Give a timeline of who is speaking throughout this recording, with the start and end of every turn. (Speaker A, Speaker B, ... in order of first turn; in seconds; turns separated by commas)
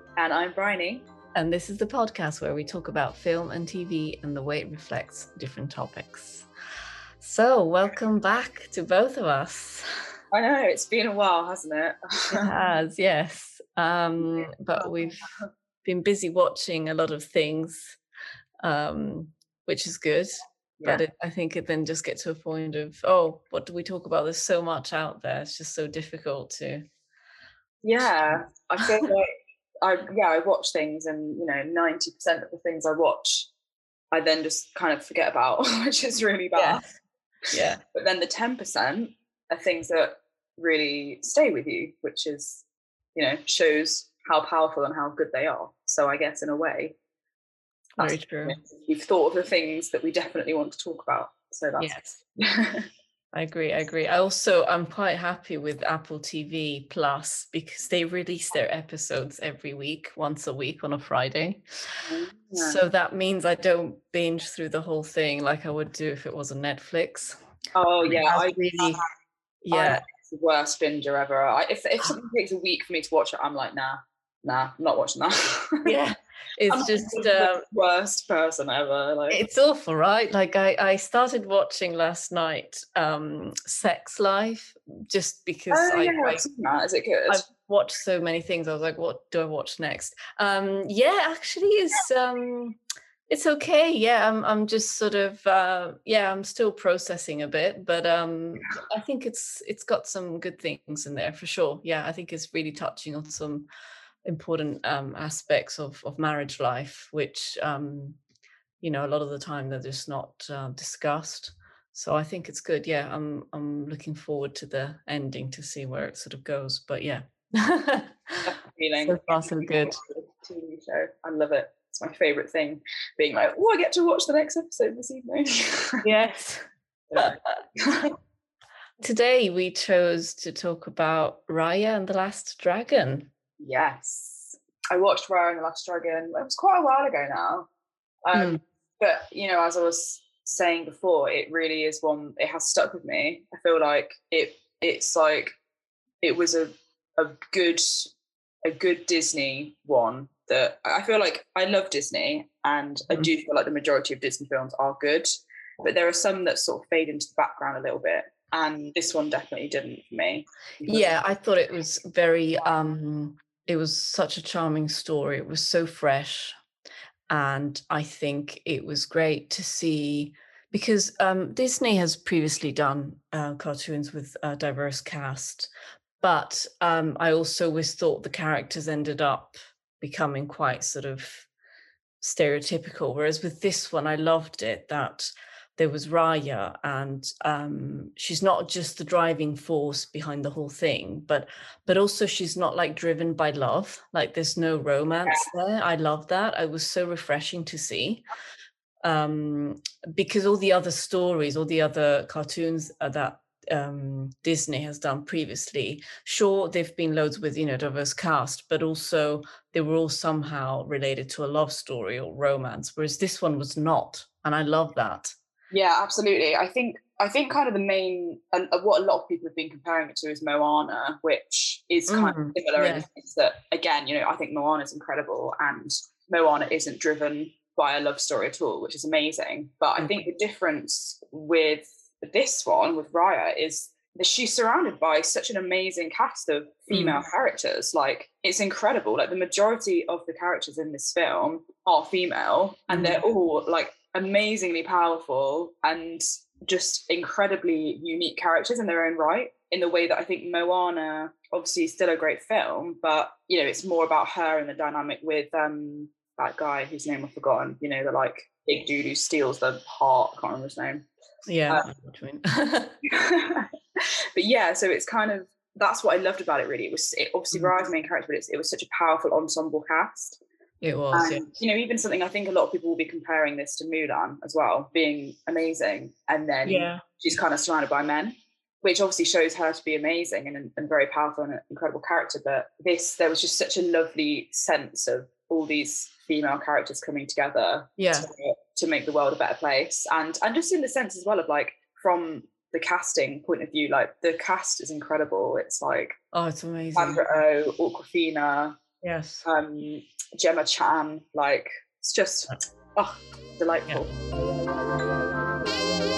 Speaker A: 0.2-1.1, Speaker B: 1.4-6.5, Speaker B: 7.2-10.1, Speaker A: 10.3-12.5, Speaker B: 12.3-15.2, Speaker A: 14.2-15.5, Speaker B: 15.8-18.0, Speaker B: 18.6-26.8, Speaker A: 27.8-29.3, Speaker B: 28.0-28.4, Speaker A: 29.8-33.5, Speaker A: 34.1-36.8, Speaker B: 36.6-36.9, Speaker B: 37.5-37.8, Speaker A: 37.9-47.0, Speaker A: 48.0-52.9, Speaker B: 48.0-48.6, Speaker B: 51.8-52.2, Speaker B: 53.3-61.6, Speaker A: 62.0-62.8, Speaker B: 62.6-67.4, Speaker A: 67.8-69.0, Speaker B: 68.1-69.0, Speaker B: 69.6-70.0, Speaker A: 69.7-75.8, Speaker B: 75.8-77.6, Speaker A: 76.7-79.4, Speaker B: 79.3-86.5, Speaker A: 85.7-87.4, Speaker B: 87.3-92.8, Speaker B: 93.3-103.7, Speaker B: 104.2-108.2, Speaker B: 108.8-118.5, Speaker A: 118.5-126.0, Speaker B: 119.0-120.0, Speaker B: 126.0-126.6, Speaker A: 127.1-128.1, Speaker B: 129.0-133.3, Speaker A: 133.6-137.7, Speaker A: 138.3-145.5, Speaker B: 138.3-138.6, Speaker A: 146.2-148.1, Speaker A: 148.7-155.3, Speaker A: 155.8-161.2, Speaker B: 160.8-166.5, Speaker B: 167.3-181.5, Speaker B: 182.2-198.3, Speaker B: 199.0-215.3, Speaker A: 215.7-261.1, Speaker B: 222.1-223.1, Speaker B: 236.9-237.2, Speaker B: 242.9-243.2, Speaker B: 261.5-263.0, Speaker A: 263.1-263.7, Speaker A: 264.4-270.4, Speaker B: 270.8-271.5, Speaker A: 271.1-296.2, Speaker B: 276.7-277.0, Speaker B: 288.0-288.3, Speaker B: 296.3-297.2, Speaker A: 297.0-298.8, Speaker B: 299.0-299.4, Speaker A: 299.4-304.1